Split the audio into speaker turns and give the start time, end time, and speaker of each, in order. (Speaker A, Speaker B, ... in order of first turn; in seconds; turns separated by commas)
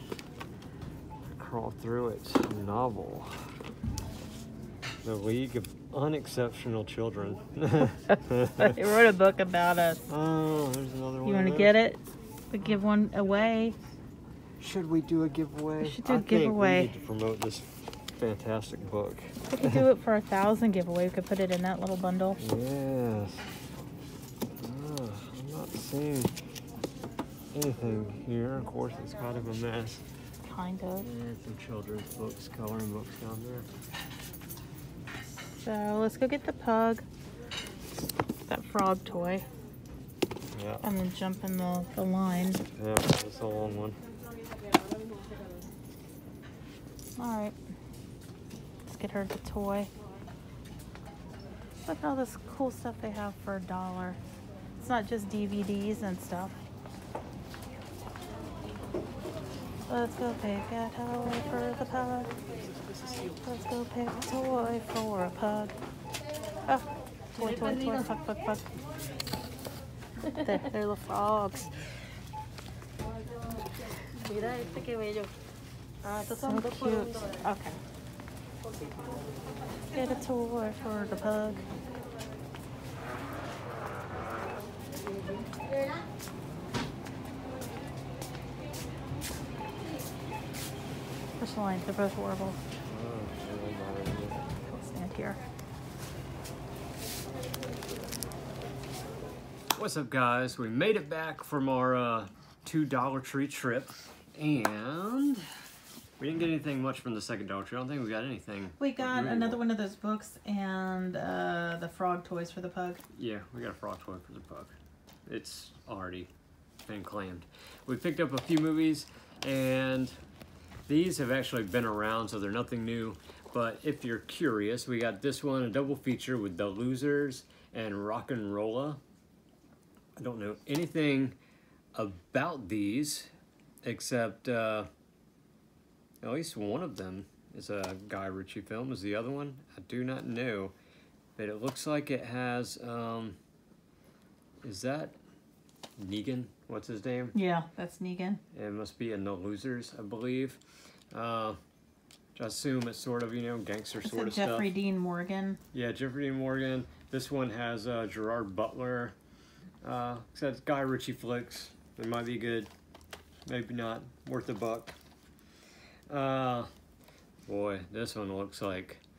Speaker A: 1.2-3.5, Speaker A: 5.0-8.8, Speaker B: 8.6-10.0, Speaker A: 10.1-11.8, Speaker B: 11.2-13.8, Speaker A: 14.6-19.8, Speaker B: 15.8-16.9, Speaker B: 19.5-22.4, Speaker A: 22.4-23.5, Speaker A: 24.6-26.3, Speaker A: 27.5-30.0, Speaker B: 30.4-31.1, Speaker A: 31.0-33.7, Speaker B: 35.3-37.0, Speaker B: 38.5-39.5, Speaker A: 40.5-40.8, Speaker B: 40.8-42.6, Speaker A: 42.8-44.0, Speaker B: 47.2-47.5, Speaker B: 48.9-49.9, Speaker B: 51.9-54.2, Speaker B: 54.8-56.6, Speaker B: 59.9-62.3, Speaker A: 62.6-63.4, Speaker B: 63.4-65.7, Speaker B: 66.7-68.7, Speaker C: 67.4-68.0, Speaker C: 70.3-70.7, Speaker B: 70.4-71.8, Speaker C: 74.1-75.3, Speaker C: 76.0-77.4, Speaker B: 76.3-77.8, Speaker B: 79.9-81.7, Speaker B: 91.4-92.6, Speaker A: 92.8-94.5, Speaker B: 94.7-95.4, Speaker A: 99.7-105.5, Speaker A: 106.2-109.6, Speaker B: 108.8-113.0, Speaker A: 113.1-114.8, Speaker A: 115.3-116.3, Speaker A: 116.8-120.2, Speaker A: 120.9-129.0, Speaker A: 130.2-131.4, Speaker A: 131.9-133.3, Speaker A: 133.8-134.9, Speaker A: 136.2-140.7, Speaker A: 141.4-143.4, Speaker A: 144.6-145.2, Speaker A: 146.0-147.3, Speaker B: 147.3-148.4, Speaker A: 148.5-150.6, Speaker A: 151.1-151.6, Speaker A: 152.3-154.7, Speaker B: 154.0-155.6, Speaker A: 155.7-159.2, Speaker A: 159.8-162.7, Speaker A: 163.4-164.9, Speaker A: 166.1-166.7, Speaker A: 167.4-169.0